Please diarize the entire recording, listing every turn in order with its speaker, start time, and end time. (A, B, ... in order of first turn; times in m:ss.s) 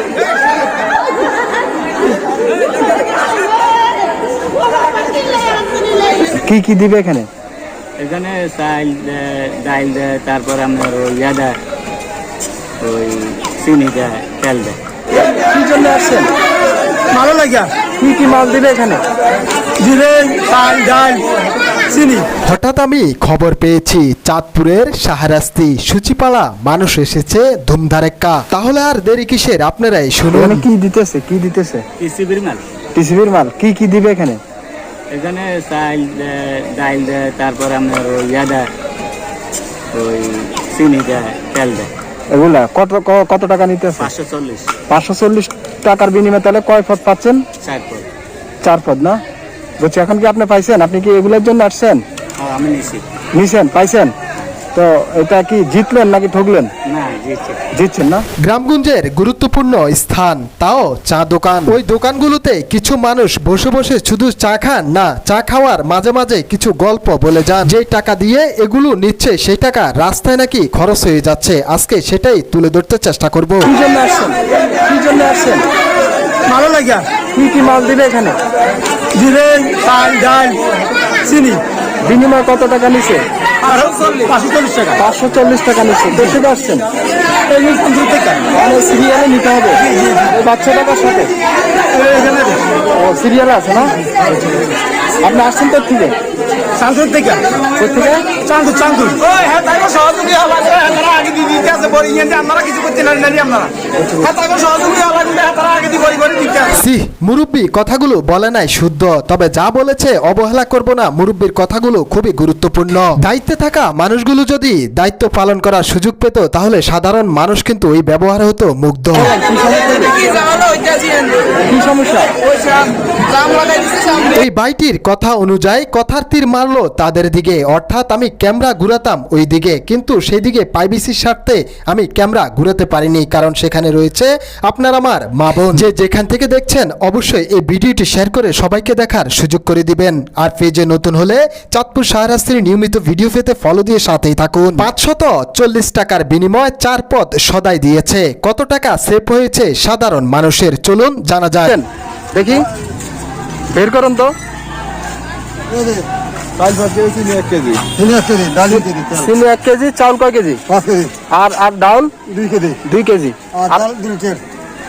0:06.4-0:07.3 A
0:08.0-0:11.5 B
0:12.8-0:14.8 B
0:15.5-0:16.3 A
0:17.1-0:17.7 C
0:18.0-0:19.0 A
0:19.8-0:21.2 C
0:21.9-0:22.3 C
0:22.4-0:30.6 D
0:30.3-0:31.8 A
0:32.0-0:32.6 B
0:32.9-0:34.4 A
0:35.1-0:38.7 B
0:39.9-0:41.9 B
0:42.3-0:44.1 A
0:44.0-0:44.8 B
0:44.9-0:47.4 A
0:47.6-0:48.0 B
0:48.6-0:49.2 A
0:49.8-0:52.0 A
0:52.4-0:53.1 B
0:53.3-0:54.1 A
0:54.7-0:56.7 A
0:56.8-0:57.6 B
0:57.7-0:58.2 A
0:58.4-1:13.7 D
1:13.6-1:15.6 A
1:16.5-1:17.0 C
1:17.3-1:18.4 A
1:19.1-1:20.6 C
1:21.2-1:21.6 C
1:22.0-1:23.2 A
1:23.6-1:25.0 C
1:25.0-1:26.8 A
1:27.6-1:28.4 C
1:28.5-1:31.3 A
1:31.9-1:32.6 C
1:32.9-1:34.0 A
1:35.2-1:36.2 A
1:36.8-1:37.4 C
1:37.8-1:38.4 A
1:38.4-1:43.7 C
1:39.9-1:40.7 B
1:44.0-1:44.4 A
1:44.2-1:46.7 C
1:46.7-1:59.4 D
1:59.2-2:00.5 A
2:01.6-2:02.3 A
2:04.3-2:31.8 D
2:31.6-2:32.7 A
2:33.7-2:34.3 A
2:35.7-2:36.0 E
2:36.6-2:37.8 C
2:38.0-2:39.1 E
2:38.6-2:40.6 A
2:40.7-2:41.1 E
2:41.3-2:42.1 A
2:42.3-2:42.7 E
2:42.8-2:43.9 A
2:44.0-2:44.4 E